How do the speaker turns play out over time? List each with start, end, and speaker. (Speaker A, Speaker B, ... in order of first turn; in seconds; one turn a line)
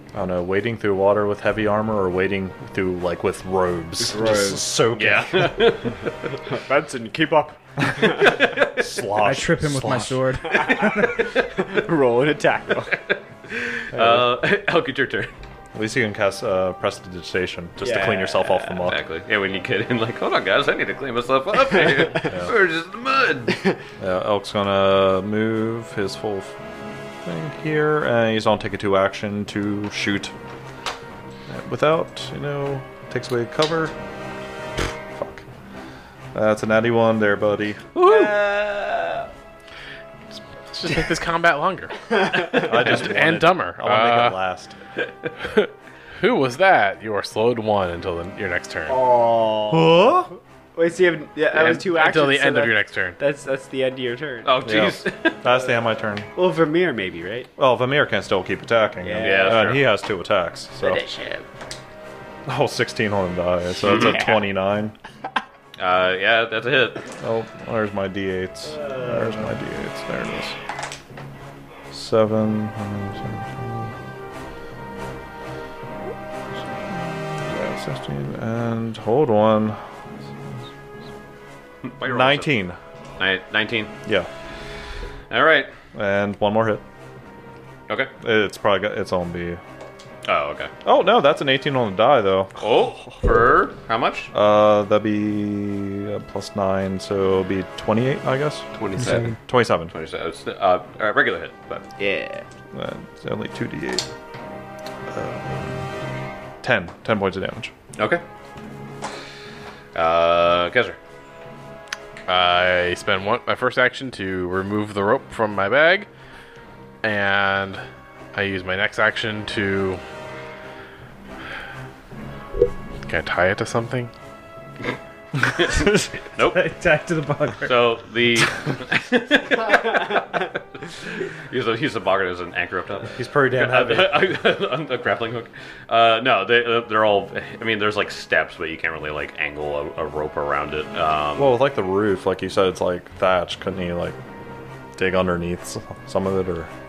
Speaker A: 0.1-5.6
Speaker B: 4.0-4.8
Speaker C: 4.9-6.0
Speaker B: 6.3-8.4
Speaker A: 7.8-8.1
Speaker C: 8.2-8.8
Speaker A: 8.8-10.2
Speaker D: 9.2-11.3
Speaker B: 10.4-13.0
Speaker C: 12.9-15.3
Speaker A: 13.9-14.3
Speaker A: 15.7-19.0
Speaker B: 17.8-18.8
Speaker C: 18.9-23.7
Speaker A: 24.0-26.5
Speaker A: 27.2-30.3
Speaker A: 31.5-33.9
Speaker A: 34.8-35.4
Speaker A: 36.3-37.9
Speaker C: 37.9-38.4
Speaker B: 38.0-39.3
Speaker E: 40.6-44.4
Speaker B: 42.1-42.9
Speaker A: 42.5-44.7
Speaker E: 45.4-49.0
Speaker B: 48.9-54.6
Speaker A: 49.7-50.3
Speaker E: 51.5-53.2
Speaker C: 54.4-55.4
Speaker A: 54.6-56.3
Speaker B: 56.3-57.5
Speaker A: 57.6-61.1
Speaker B: 59.0-59.8
Speaker C: 59.2-59.8
Speaker B: 60.8-61.4
Speaker A: 62.5-65.0
Speaker C: 63.8-64.2
Speaker B: 64.0-64.3
Speaker C: 65.8-67.0
Speaker A: 67.2-70.5
Speaker B: 68.7-69.5
Speaker A: 71.9-73.9
Speaker A: 76.7-79.8
Speaker C: 81.8-82.5
Speaker A: 82.0-82.8
Speaker C: 83.2-83.9
Speaker C: 85.3-85.7
Speaker A: 85.9-86.8
Speaker A: 88.2-89.6
Speaker C: 90.2-90.7
Speaker A: 90.8-92.6
Speaker C: 92.6-94.3
Speaker A: 94.3-98.7
Speaker B: 98.7-99.3
Speaker D: 99.0-99.3
Speaker A: 99.3-99.9
Speaker C: 99.9-101.8
Speaker B: 102.0-102.5
Speaker A: 102.7-104.0
Speaker A: 105.1-107.7
Speaker C: 108.0-108.2
Speaker C: 109.9-111.0
Speaker E: 112.3-116.1
Speaker E: 117.0-117.8
Speaker E: 118.3-120.0
Speaker E: 123.0-124.1
Speaker C: 125.4-126.6
Speaker D: 126.4-127.8
Speaker C: 127.6-141.5
Speaker A: 133.1-134.3
Speaker A: 141.4-144.2
Speaker A: 144.9-146.7